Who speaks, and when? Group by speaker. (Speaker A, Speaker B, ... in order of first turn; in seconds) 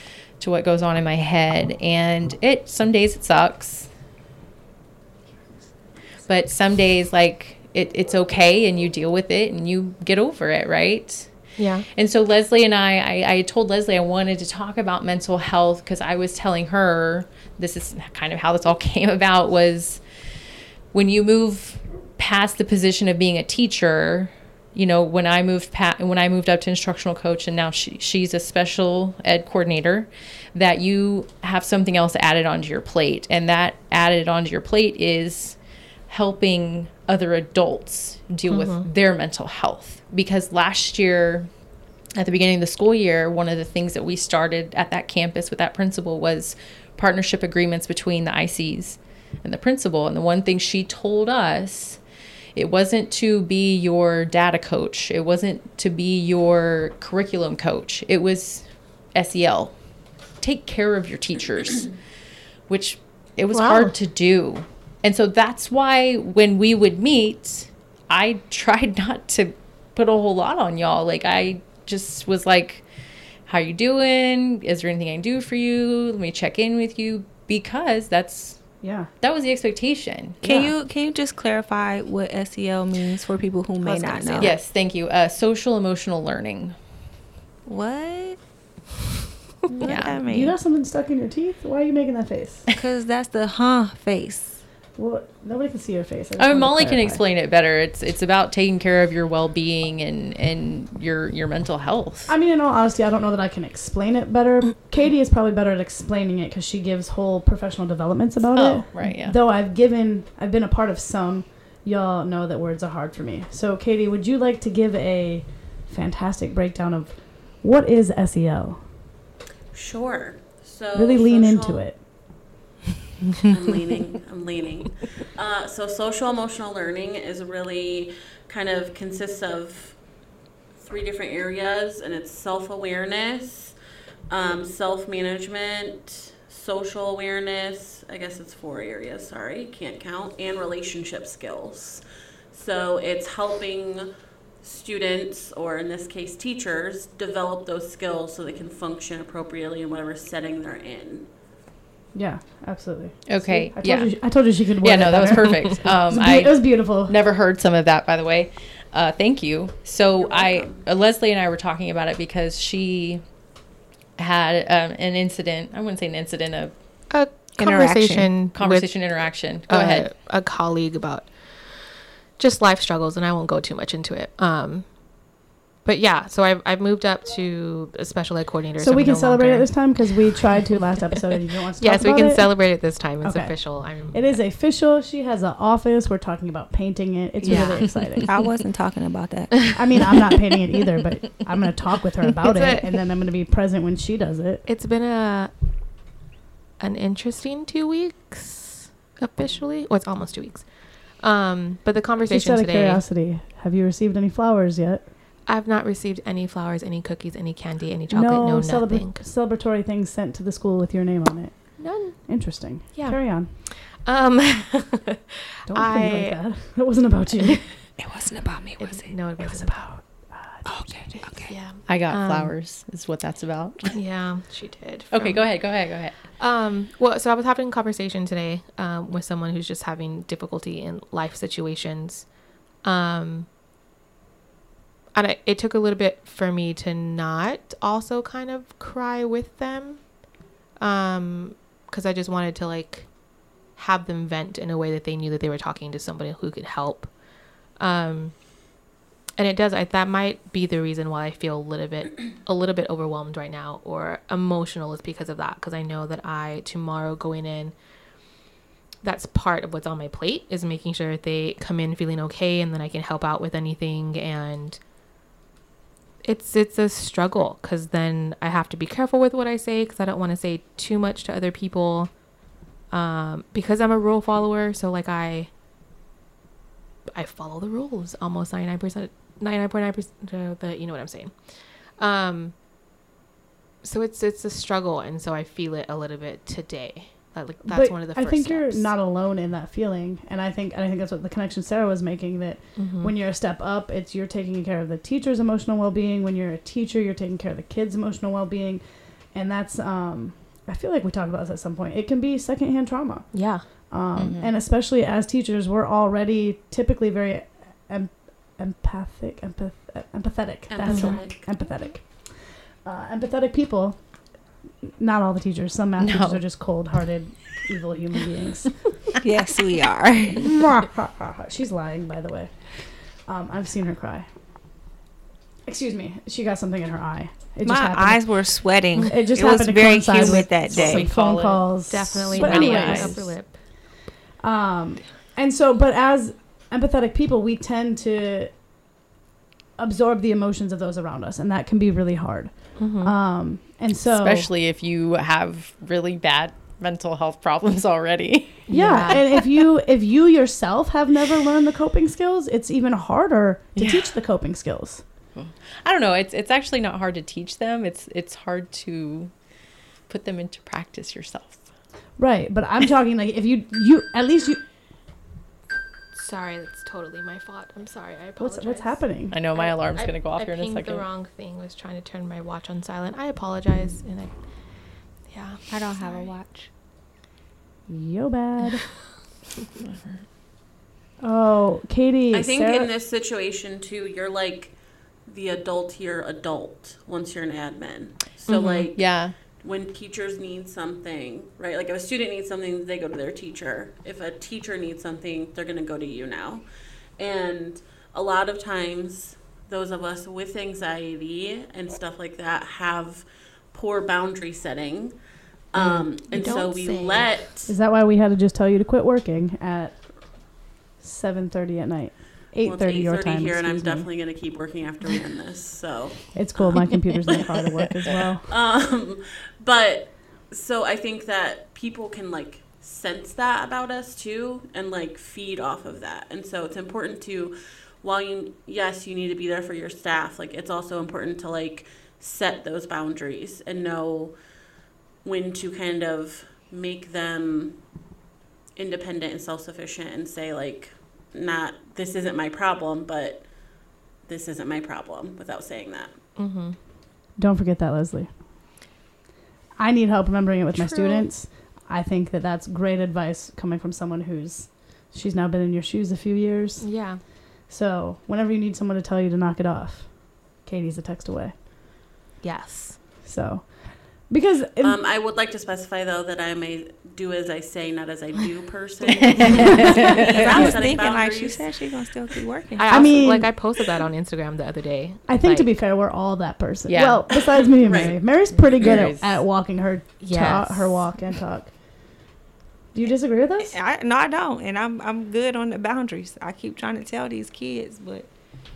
Speaker A: 0.4-3.9, 6.3-11.3, 11.9-20.0, 20.9-35.5, 36.1-41.5, 42.1-52.0, 52.5-59.7, 60.4-61.9, 62.7-72.8, 73.5-78.6, 79.2-80.7, 84.4-86.8, 89.8-90.2, 96.4-102.3, 108.5-109.4, 153.3-154.1, 154.8-163.2, 164.2-166.7, 168.5-170.1, 221.8-224.0, 225.1-226.2, 304.2-304.5, 316.0-316.4, 330.7-333.3, 344.0-349.2, 353.8-354.0, 355.3-359.3, 360.1-361.6, 369.3-371.1, 379.8-380.2, 388.5-389.3, 405.8-406.0, 469.4-470.2, 476.9-477.2, 478.5-479.4
Speaker B: 11.6-11.8, 38.5-38.8, 63.5-63.9, 83.8-84.5, 167.1-168.9, 169.7-171.3, 172.4-174.9, 175.8-180.5, 181.8-184.3, 187.4-188.3, 192.4-193.0, 194.7-195.5, 196.8-200.6, 201.2-203.0, 205.5-209.2, 211.8-212.4, 212.9-216.4, 218.8-220.0, 221.1-222.5, 223.8-225.5, 226.4-232.2, 232.8-233.5, 235.1-240.0, 240.8-243.1, 243.7-247.1, 247.8-248.3, 249.4-257.7, 259.0-264.8, 266.2-272.1, 272.9-275.5, 277.1-281.4, 282.0-282.5, 283.8-288.9, 292.8-293.1, 303.3-303.6, 331.9-333.5, 342.8-343.1, 348.7-349.2, 366.1-369.0, 369.5-374.3, 375.3-375.6, 406.3-407.3, 446.4-446.8, 450.8-451.2, 456.8-457.2, 462.4-463.0, 472.8-475.7, 480.2-481.0
Speaker C: 78.8-79.1, 89.7-92.7, 95.0-97.2, 102.3-118.8, 120.9-122.0, 152.1-157.1, 178.8-182.6, 183.2-188.3, 189.7-194.7, 202.3-205.1, 208.1-213.5, 215.7-217.6, 219.4-220.8, 287.6-298.8, 299.3-303.3, 303.9-312.2, 312.8-314.0, 315.0-318.7, 320.4-322.5, 323.2-324.2, 325.6-328.3, 329.1-333.2, 334.4-338.5, 339.8-344.5, 348.7-355.0, 362.2-364.6, 368.4-369.3, 377.9-378.8, 381.2-382.9, 407.6-410.0, 411.0-414.1, 416.3-418.5, 447.4-448.3, 449.8-456.9, 457.7-460.1, 460.6-461.5, 463.2-463.8, 464.3-465.0, 470.5-470.7, 472.9-473.5, 475.3-481.7, 482.9-483.8
Speaker D: 80.4-84.5, 87.7-88.4, 89.8-90.5, 92.7-94.6, 167.6-168.3, 187.4-189.8, 218.0-219.2, 220.6-221.5, 319.2-320.5, 327.6-331.1, 375.7-376.7, 406.4-407.1, 470.0-473.2, 483.6-488.3
Speaker E: 119.7-121.8, 123.4-129.9, 130.8-133.7, 134.3-144.1, 144.6-151.3, 160.2-160.8, 310.7-311.4, 382.3-384.7, 385.2-396.6, 397.2-405.1, 405.7-407.7, 412.6-416.4, 417.3-417.6, 418.5-434.3, 435.2-437.8, 438.8-443.4, 444.3-446.1, 464.8-471.7, 477.8-478.2